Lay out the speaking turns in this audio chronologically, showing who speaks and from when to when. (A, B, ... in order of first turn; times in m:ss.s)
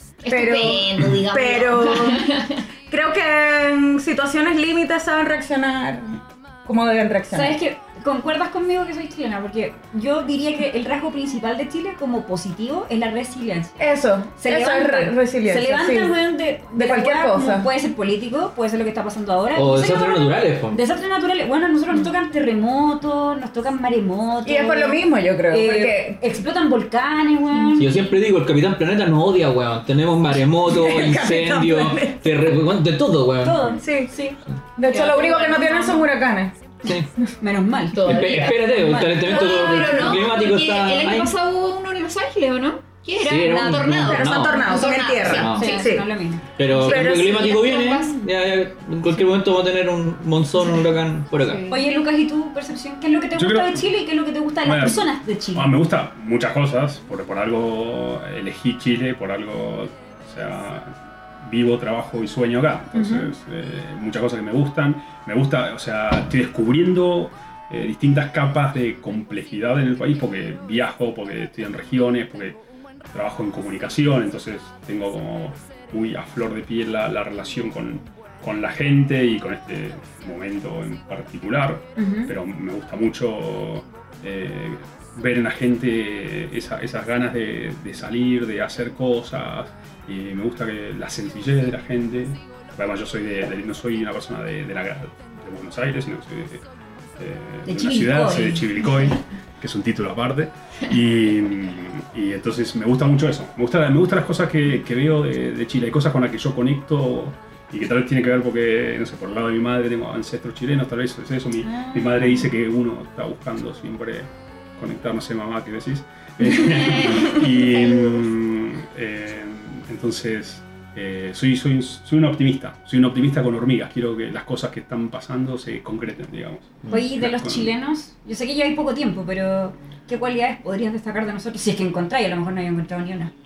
0:00.2-0:02.6 A
0:00.3-0:02.4 B
0:02.9-0:07.6 B
0:07.3-0:13.8 C
0:13.8-0:16.2 B
0:14.4-0:28.1 C
0:16.8-0:17.7 B
0:19.5-0:20.8 D
0:24.4-0:26.2 B
0:27.8-0:33.8 D
0:30.6-0:32.2 B
0:33.4-0:34.4 C
0:33.8-0:34.1 B
0:34.8-0:36.5 B
0:34.9-0:36.0 A
0:35.6-0:36.0 C
0:37.4-0:40.2 C
0:37.9-0:45.9 A
0:38.0-0:41.3 D
0:43.2-0:44.7 D
0:43.9-0:46.1 B
0:45.3-0:45.8 D
0:45.5-0:46.4 C
0:46.6-0:51.6 D
0:46.7-0:48.2 A
0:46.7-0:47.5 B
0:51.4-0:51.8 A
0:51.7-0:55.7 C
0:53.4-0:53.9 E
0:54.6-1:12.6 E
1:02.9-1:03.3 C
1:13.1-1:36.6 E
1:22.0-1:22.3 C
1:37.2-2:07.7 E
1:37.7-1:39.1 C
1:51.7-1:52.0 C
1:56.6-1:57.4 A
2:06.9-2:13.3 C